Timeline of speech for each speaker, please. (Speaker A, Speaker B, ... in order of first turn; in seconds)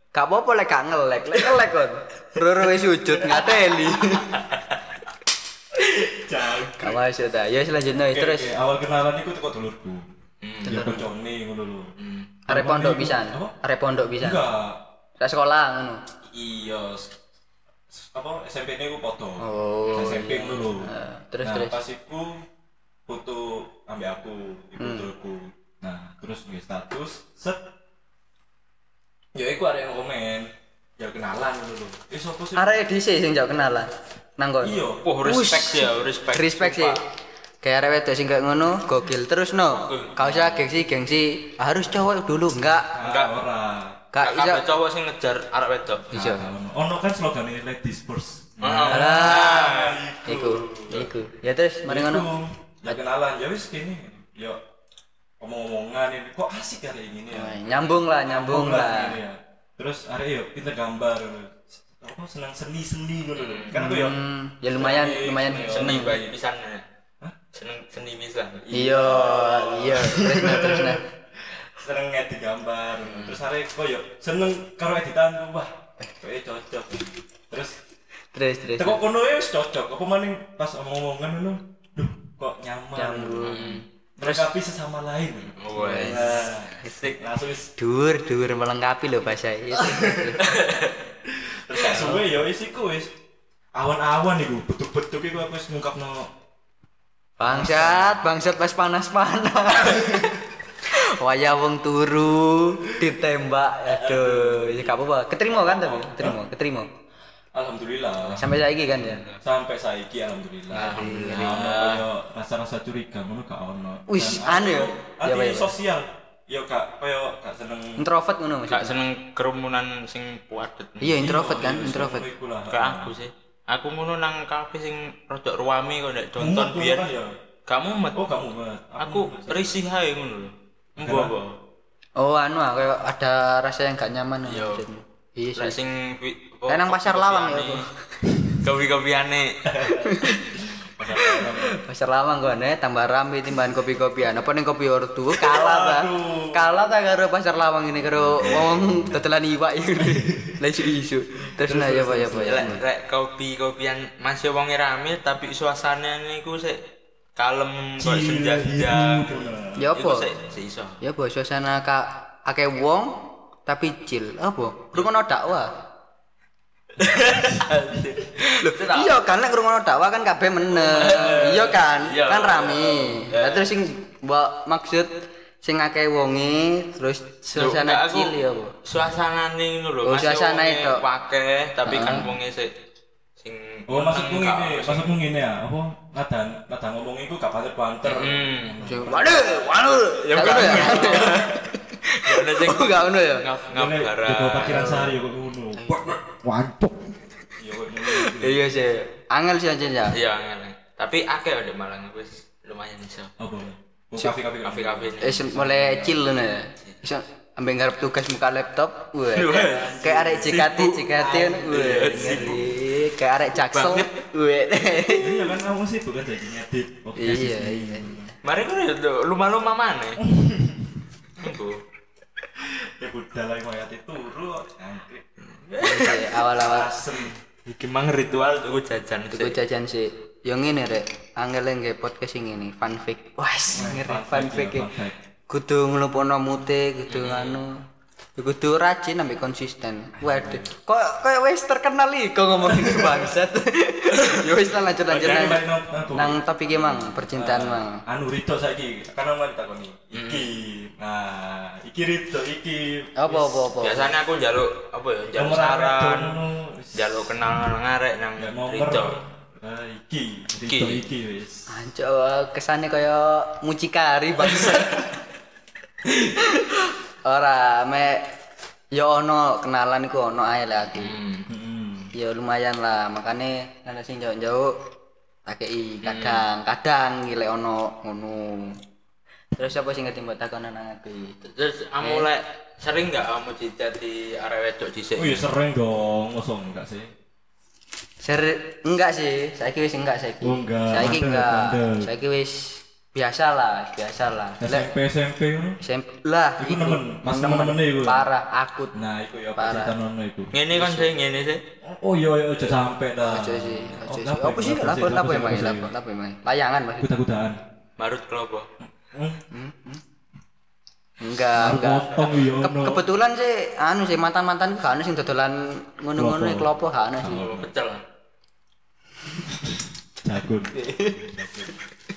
Speaker A: 0.1-4.4, 6.8-8.5, 10.7-11.1, 12.5-14.5, 15.2-16.0, 19.4-21.8, 24.8-25.1, 32.5-37.0, 37.6-42.9, 44.1-44.6, 46.1-46.5, 48.9-52.3, 57.3-59.2, 63.7-66.2, 68.7-71.0, 78.3-79.0, 83.0-83.8, 85.7-87.1, 87.8-90.5, 91.9-92.2, 97.4-106.9, 108.3-109.2, 110.7-111.7, 114.1-115.7, 118.0-118.9, 121.0-122.2, 132.2-135.8, 136.7-137.9, 139.9-140.4, 141.2-152.8, 159.8-160.3, 161.0-165.7, 168.6-175.1, 175.6-178.7, 180.0-181.0, 181.8-182.3, 188.8-193.4, 194.7-195.1, 195.7-196.2, 198.0-200.2, 205.2-215.5, 217.2-218.1, 225.8-226.9, 229.3-234.9, 235.5-237.8, 238.4-245.6, 246.1-248.0, 253.2-254.1, 261.7-265.1, 266.4-268.3, 268.9-271.2, 272.1-274.7, 275.5-278.8, 279.6-281.4, 282.0-282.3, 288.2-294.9, 295.8-298.9, 299.6-299.9, 303.2-307.1, 309.5-310.0, 311.2-317.5, 320.7-321.3
Speaker B: 5.7-7.0, 8.1-10.0, 10.6-11.9, 12.5-13.5, 14.2-14.8, 16.2-17.1, 17.9-22.4, 23.1-27.6, 29.3-32.8, 34.6-35.0, 42.9-44.0, 46.1-51.1, 51.9-54.6, 55.4-64.2, 64.7-66.2, 68.7-77.8, 78.8-83.5, 84.2-87.7, 89.7-90.5, 91.2-93.1, 93.7-96.3, 97.4-98.2, 103.9-106.4, 107.5-108.5, 109.4-118.0, 121.1-123.1, 126.4-127.3, 128.1-129.8, 131.0-131.3, 139.7-141.8, 145.3-146.6, 148.2-149.2, 150.0-150.7, 151.4-152.8, 158.0-159.9, 182.0-182.3, 183.9-189.8, 191.0-191.6, 193.7-198.6, 203.4-206.3, 209.4-212.8, 215.1-218.3, 220.2-221.0, 222.6-225.2, 226.5-227.4, 233.7-235.2, 240.2-240.7, 242.6-243.3, 244.1-253.6, 255.3-257.3, 258.4-261.7, 264.6-264.9, 271.5-272.1, 285.1-287.1, 290.4-292.1, 294.6-295.8, 296.6-298.2, 298.9-301.1, 301.8-305.9, 307.0-307.6, 309.1-309.4, 311.5-313.1, 316.1-317.7, 319.4-321.8
Speaker C: 10.4-10.9, 12.0-12.3, 35.0-37.0, 39.7-40.6, 43.0-43.4, 44.2-46.1, 48.6-50.0, 63.4-63.7, 65.5-66.8, 67.5-68.7, 83.4-84.5, 85.6-87.2, 90.4-91.0, 108.9-109.4, 110.7-112.1, 118.7-121.2, 122.7-127.0, 127.7-128.2, 129.0-131.5, 134.4-134.8, 135.6-137.8, 138.5-139.8, 152.3-156.8, 157.3-161.0, 167.0-169.2, 170.7-173.7, 177.6-182.7, 183.4-185.1, 188.0-195.1, 200.1-203.3, 204.6-205.4, 209.3-212.7, 213.5-214.1, 218.4-220.2, 221.4-221.8, 225.5-226.4, 227.7-229.6, 237.1-237.6, 245.2-245.6, 250.1-250.5, 253.8-256.4, 256.9-259.2, 260.6-261.0, 271.0-271.5, 276.0-276.4, 281.4-285.4, 300.5-301.6, 308.0-308.7, 312.1-312.5, 317.2-318.0